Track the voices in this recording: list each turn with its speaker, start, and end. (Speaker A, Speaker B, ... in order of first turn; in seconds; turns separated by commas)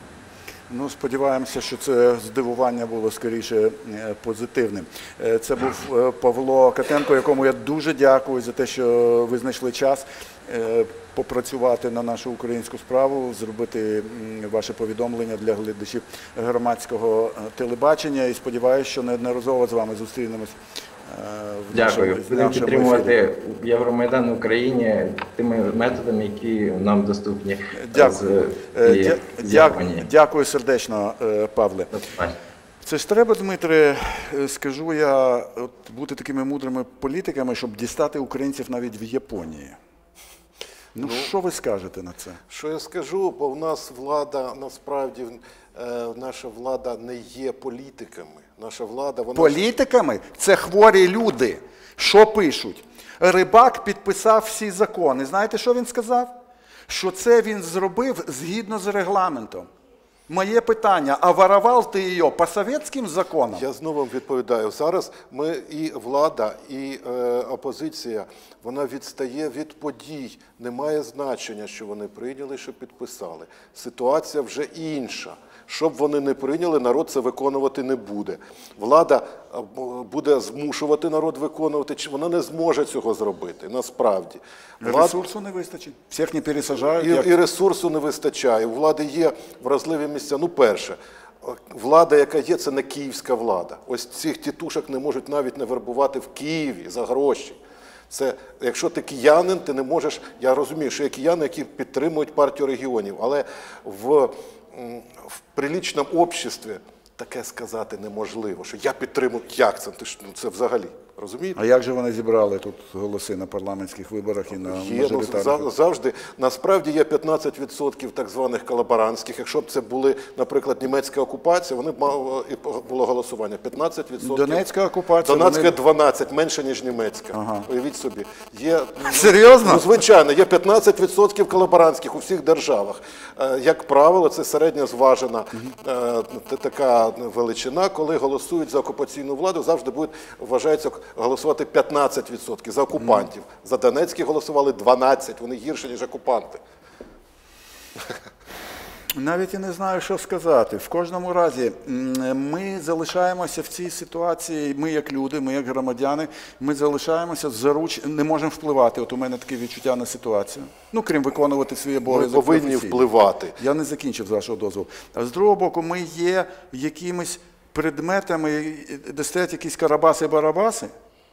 Speaker A: 0.7-23.1, Speaker B: 21.7-30.1, Speaker A: 27.7-31.9, Speaker B: 31.9-32.4, Speaker A: 32.8-39.8, Speaker A: 40.9-42.4, Speaker C: 41.0-41.3, Speaker C: 42.5-49.6, Speaker A: 49.3-56.3, Speaker A: 56.9-59.7, Speaker A: 60.3-63.6, Speaker C: 63.5-85.2, Speaker A: 84.8-87.3, Speaker C: 87.0-97.6, Speaker C: 98.1-111.6, Speaker A: 111.5-115.7, Speaker C: 114.5-124.7, Speaker A: 124.2-125.7, Speaker C: 125.2-146.6, Speaker A: 127.3-127.7, Speaker A: 129.0-129.9, Speaker A: 143.0-143.2, Speaker A: 149.2-170.9, Speaker C: 162.1-163.6